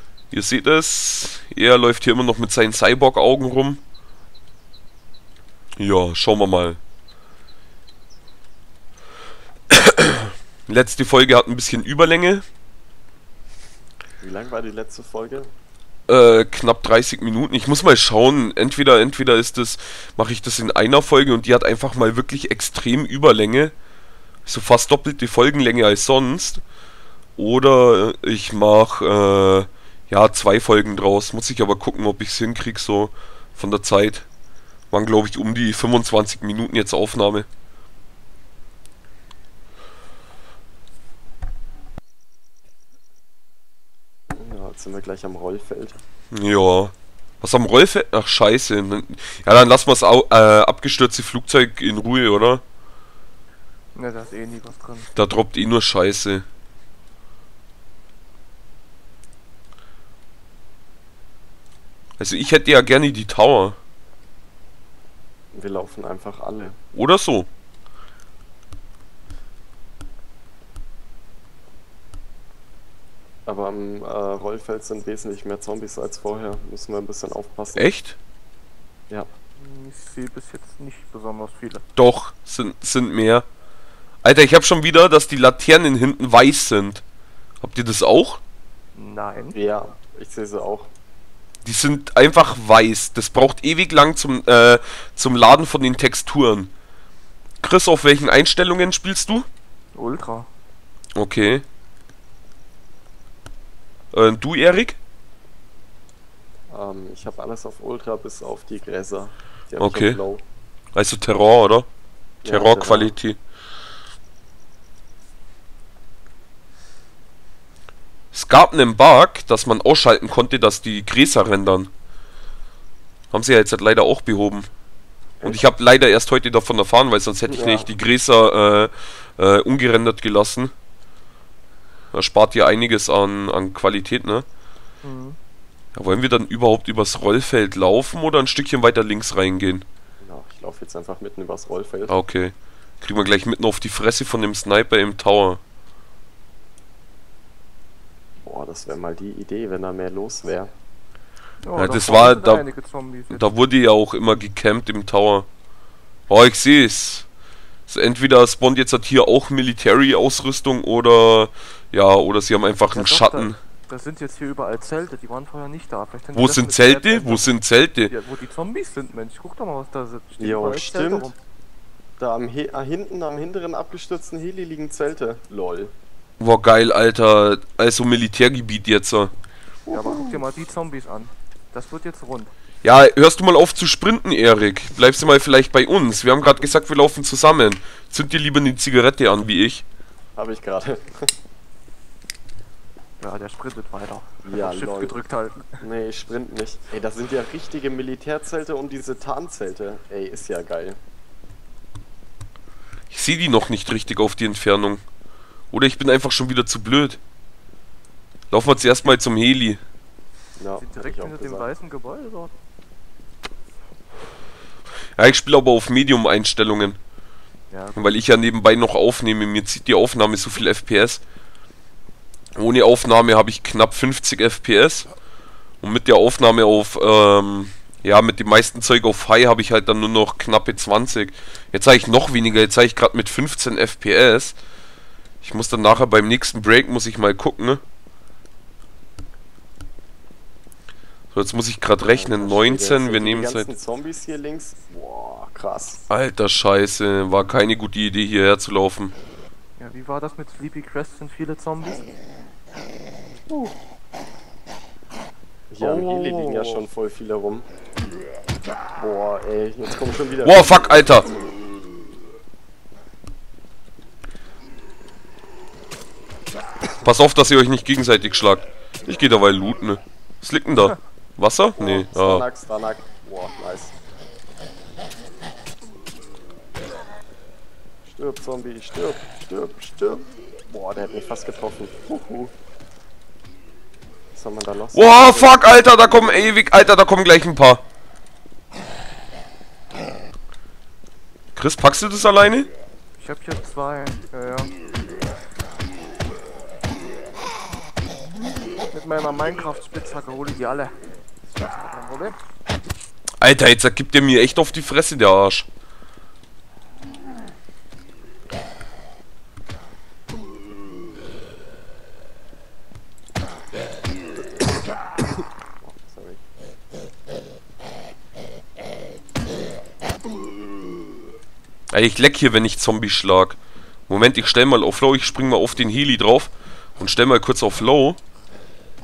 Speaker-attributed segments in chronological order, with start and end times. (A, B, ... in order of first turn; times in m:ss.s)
0:00.3-0:03.8 A
0:05.8-0:06.8 A
0:09.7-0:12.4 A
0:14.2-0:15.5 B
0:16.1-0:23.7 A
0:24.4-0:26.6 A
0:27.4-0:34.3 A
0:34.9-0:37.5 A
0:44.3-0:46.0 B
0:46.3-0:52.6 A
0:53.9-0:55.1 C
0:55.1-0:56.4 A
1:02.2-1:03.8 A
1:05.5-1:06.8 B
1:06.9-1:07.5 A
1:13.4-1:17.8 B
1:17.7-1:18.2 A
1:19.6-1:21.8 C
1:22.0-1:23.4 A
1:24.2-1:27.0 A
1:27.6-1:28.4 A
1:29.0-1:29.6 C
1:29.5-1:30.9 B
1:31.6-1:36.7 A
1:37.6-1:39.4 A
1:39.9-1:40.5 C
1:41.2-1:41.6 A
1:44.1-1:45.0 A
1:46.7-1:50.4 B
1:49.8-1:50.2 A
1:50.9-1:51.9 A
1:52.4-1:53.1 B
1:52.4-1:53.4 A
1:58.3-2:01.9 A
2:03.3-2:04.7 A
2:05.4-2:05.6 B
2:05.4-2:10.7 A
2:07.5-2:07.9 B
2:12.1-2:14.4 A
2:15.0-2:15.4 C
2:15.9-2:19.8 A
2:20.2-2:22.1 B
2:22.1-2:25.6 A
2:28.4-2:30.7 B
2:31.6-2:33.5 C
2:31.8-2:32.6 A
2:33.3-2:35.5 A
2:36.3-2:37.3 A
2:37.9-2:43.6 A
2:42.9-2:47.6 C
2:46.3-2:48.1 A
2:48.1-2:51.4 C
2:50.4-2:51.3 B
2:52.2-2:55.9 B
2:56.4-2:59.3 A
2:59.9-3:00.4 B
2:59.9-3:02.5 C
3:02.8-3:09.8 A
3:10.4-3:11.3 B
3:13.2-3:15.8 C
3:14.4-3:15.1 B
3:15.8-3:21.0 B
3:23.1-3:25.0 A
3:25.7-3:27.2 A
3:28.5-3:29.8 A
3:30.6-3:31.7 B
3:30.8-3:32.5 C
3:35.2-3:37.0 A
3:37.7-3:38.2 C
3:38.0-3:41.2 A
3:42.6-3:45.1 A
3:45.8-3:54.6 A
3:55.4-3:57.8 A
4:01.3-4:03.7 A
4:02.0-4:06.0 B
4:06.1-4:09.1 A
4:09.8-4:12.1 C
4:15.7-4:17.6 B
4:15.8-4:16.8 C
4:19.0-4:21.0 B
4:20.4-4:21.3 A
4:27.0-4:32.4 A
4:31.8-4:33.9 B
4:38.0-4:42.5 B
4:44.3-4:46.5 B
4:44.9-4:47.8 A
4:51.5-4:52.7 A
4:53.2-4:54.7 C
4:58.9-5:00.9 C
5:01.6-5:02.4 C
5:03.4-5:05.7 A
5:15.8-5:16.4 B
5:21.9-5:23.6 A
5:24.1-5:28.2 A